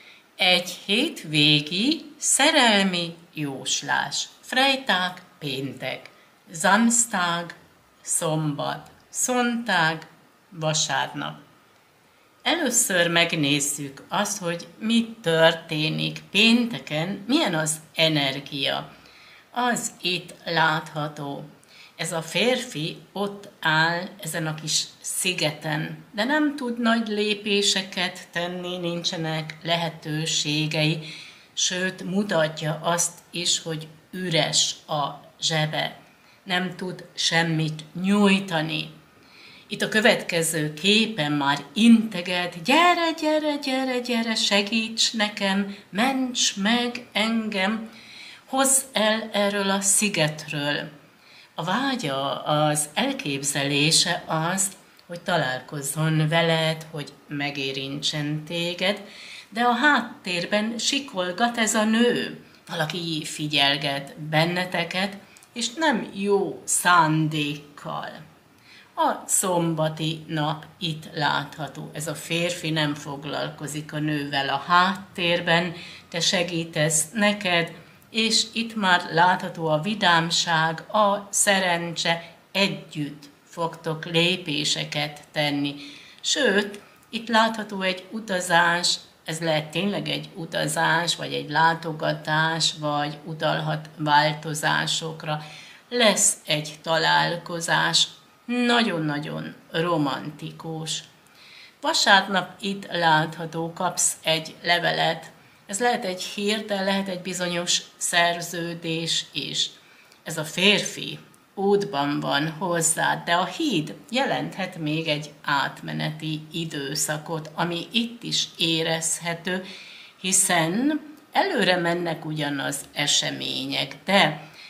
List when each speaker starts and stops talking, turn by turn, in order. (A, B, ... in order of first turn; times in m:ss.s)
0:00.4-0:11.4 A
0:12.4-0:18.8 A
0:19.5-0:38.9 A
0:39.7-0:47.8 A
0:48.5-0:50.9 A
0:51.6-1:08.2 A
1:09.0-1:41.1 A
1:41.8-1:59.6 A
2:00.2-2:04.4 A